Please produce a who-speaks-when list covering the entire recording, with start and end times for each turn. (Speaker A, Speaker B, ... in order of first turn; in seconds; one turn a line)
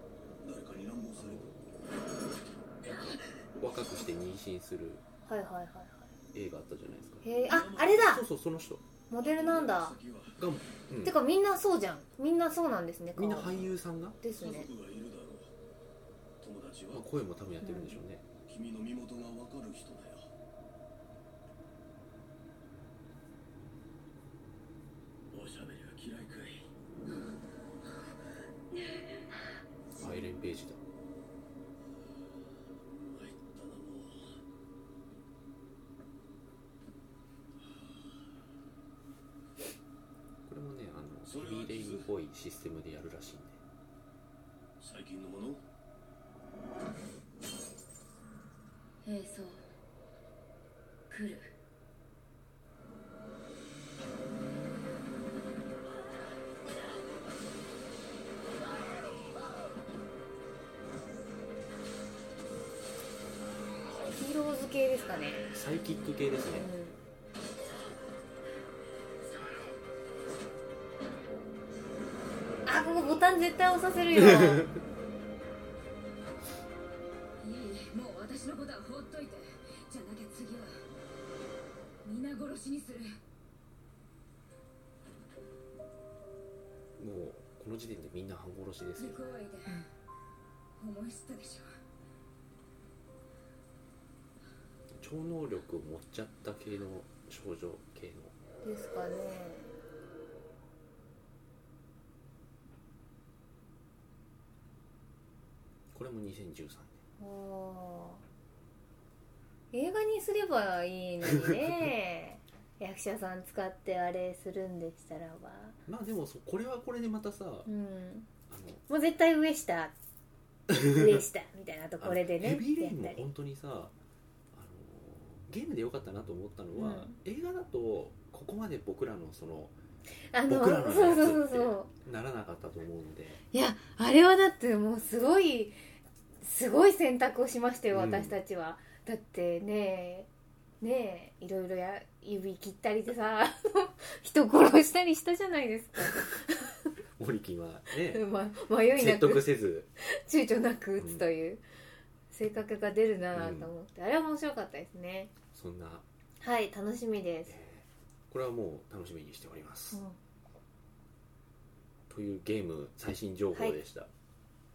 Speaker A: 0.4-1.5
Speaker B: 1.2-1.5
Speaker B: 3.6-5.0
Speaker C: 5.2-6.1
Speaker B: 6.3-7.2
Speaker C: 7.2-8.2
Speaker A: 7.5-8.1
Speaker B: 7.8-8.8
Speaker C: 9.1-10.0
Speaker A: 9.2-10.4
Speaker B: 10.4-11.2
Speaker C: 11.0-14.7
Speaker B: 13.2-14.2
Speaker A: 14.4-15.5
Speaker A: 16.4-17.0
Speaker B: 16.9-18.2
Speaker C: 17.6-18.0
Speaker A: 18.5-20.2
Speaker A: 25.3-26.7
Speaker B: 29.9-30.8
Speaker A: 32.9-34.4
Speaker A: 37.6-38.1
Speaker B: 40.5-43.6
Speaker A: 41.2-42.1
Speaker A: 44.8-45.6
Speaker D: 49.0-49.6
Speaker D: 51.1-51.5
Speaker C: 64.1-65.5
Speaker B: 65.5-66.7
Speaker C: 66.5-67.0
Speaker C: 72.7-74.7
Speaker B: 74.1-74.8
Speaker D: 77.4-80.8
Speaker D: 82.0-83.2
Speaker B: 87.0-89.2
Speaker D: 89.0-89.8
Speaker D: 90.8-91.8
Speaker B: 94.9-98.3
Speaker C: 98.6-99.7
Speaker B: 105.9-107.0
Speaker C: 107.2-108.2
Speaker C: 109.7-115.8
Speaker B: 111.2-111.9
Speaker B: 115.9-117.7
Speaker C: 117.7-118.3
Speaker B: 118.5-118.8
Speaker C: 118.9-119.9
Speaker B: 120.7-121.2
Speaker C: 120.7-123.2
Speaker B: 122.0-123.9
Speaker B: 124.5-129.7
Speaker C: 126.7-127.2
Speaker C: 130.3-131.9
Speaker B: 130.5-133.4
Speaker C: 133.5-135.8
Speaker C: 136.4-140.3
Speaker B: 137.9-138.3
Speaker C: 140.8-146.8
Speaker B: 147.2-148.2
Speaker C: 148.0-149.5
Speaker B: 148.9-149.9
Speaker C: 150.0-151.6
Speaker B: 151.0-151.2
Speaker C: 152.3-155.3
Speaker B: 153.3-153.7
Speaker B: 155.5-156.0
Speaker C: 156.4-157.6
Speaker B: 157.5-160.0
Speaker B: 162.1-164.1